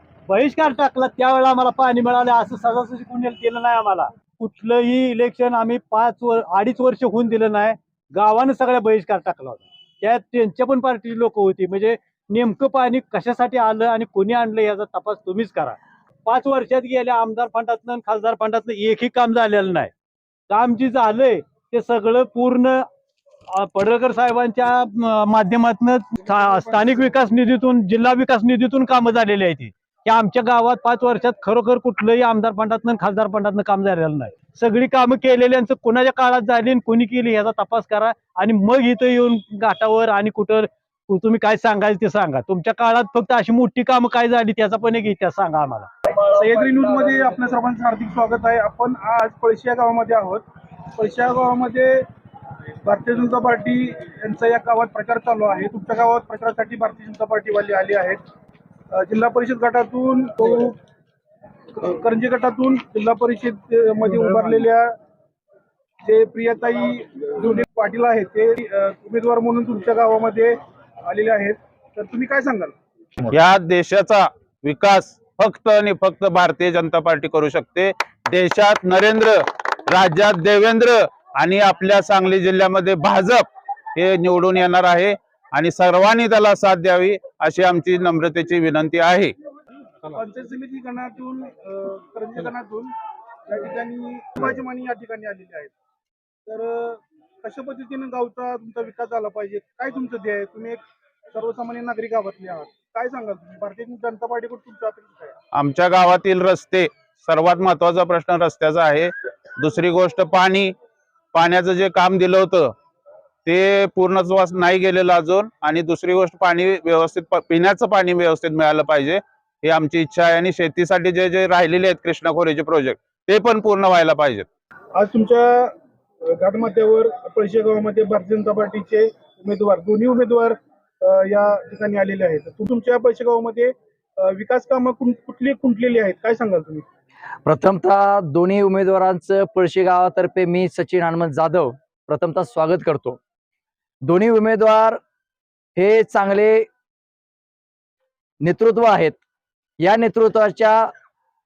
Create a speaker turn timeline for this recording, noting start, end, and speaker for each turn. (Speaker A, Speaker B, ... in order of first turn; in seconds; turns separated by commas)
Speaker A: 0.3-19.9, Speaker A: 20.5-22.9, Speaker A: 23.5-45.9, Speaker B: 26.2-27.1, Speaker B: 46.3-52.1, Speaker B: 52.8-58.2, Speaker B: 58.9-60.8, Speaker B: 61.7-64.9, Speaker B: 66.0-72.8, Speaker C: 73.3-89.3, Speaker B: 90.1-92.9, Speaker B: 93.5-95.7, Speaker B: 96.5-105.3, Speaker C: 105.5-110.7, Speaker C: 111.3-112.7, Speaker C: 113.5-124.5, Speaker B: 124.9-136.9, Speaker D: 137.4-143.2, Speaker D: 144.0-145.0, Speaker D: 145.8-146.7, Speaker D: 148.4-149.2, Speaker D: 149.8-150.9